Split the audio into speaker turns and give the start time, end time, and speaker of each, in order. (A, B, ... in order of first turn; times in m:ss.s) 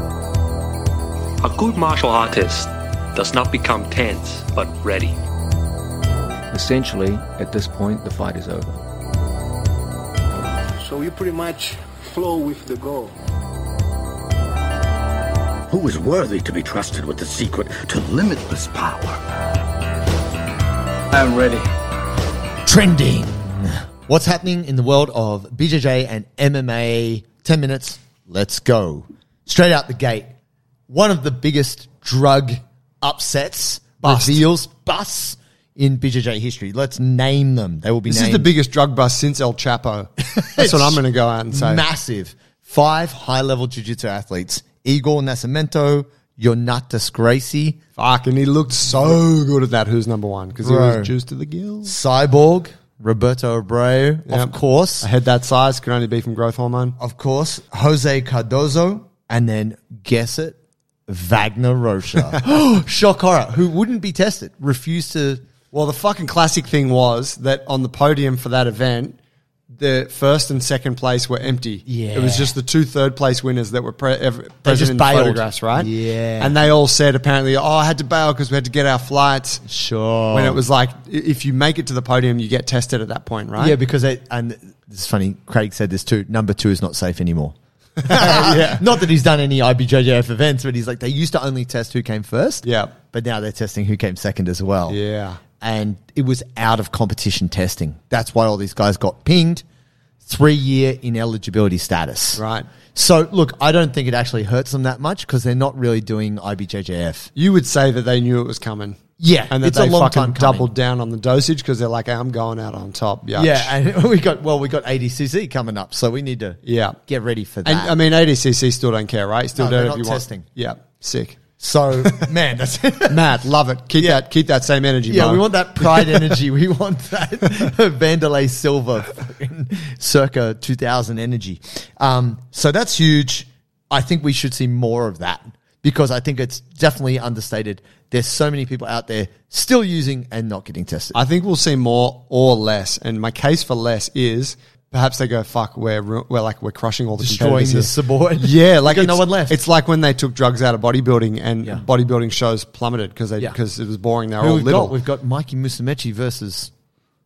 0:01.4-0:05.2 A
0:06.5-0:08.8 B
0:10.8-0:13.1 C
0:15.7-0:18.7 D
0:22.6-0:30.3 E
0:30.9-0:38.5 E
0:34.0-0:34.4 F
0:38.1-0:41.8 F
0:40.3-0:41.0 E
0:41.5-0:47.8 E
0:48.0-0:52.0 F
0:50.6-0:51.1 E
0:51.8-0:55.1 E
0:54.3-0:57.0 F
0:57.0-1:00.6 E
1:01.1-1:05.4 E
1:05.7-1:09.2 F
1:09.8-1:19.6 F
1:11.8-1:12.5 E
1:14.6-1:16.6 E
1:19.6-1:20.6 E
1:20.3-1:23.8 F
1:23.6-1:35.0 E
1:28.0-1:28.9 F
1:32.6-1:32.9 F
1:34.9-1:35.4 F
1:35.6-1:39.6 E
1:40.2-1:42.4 E
1:42.3-1:42.7 F
1:42.9-1:47.3 E
1:47.3-1:53.8 F
1:49.2-1:50.8 E
1:53.3-1:58.0 E
1:56.6-1:57.0 F
1:57.6-2:01.4 F
1:59.5-2:00.4 E
2:01.6-2:03.3 E
2:02.0-2:02.3 F
2:03.0-2:06.4 F
2:05.1-2:21.2 E
2:21.1-2:34.9 F
2:27.2-2:29.6 E
2:34.4-2:36.7 E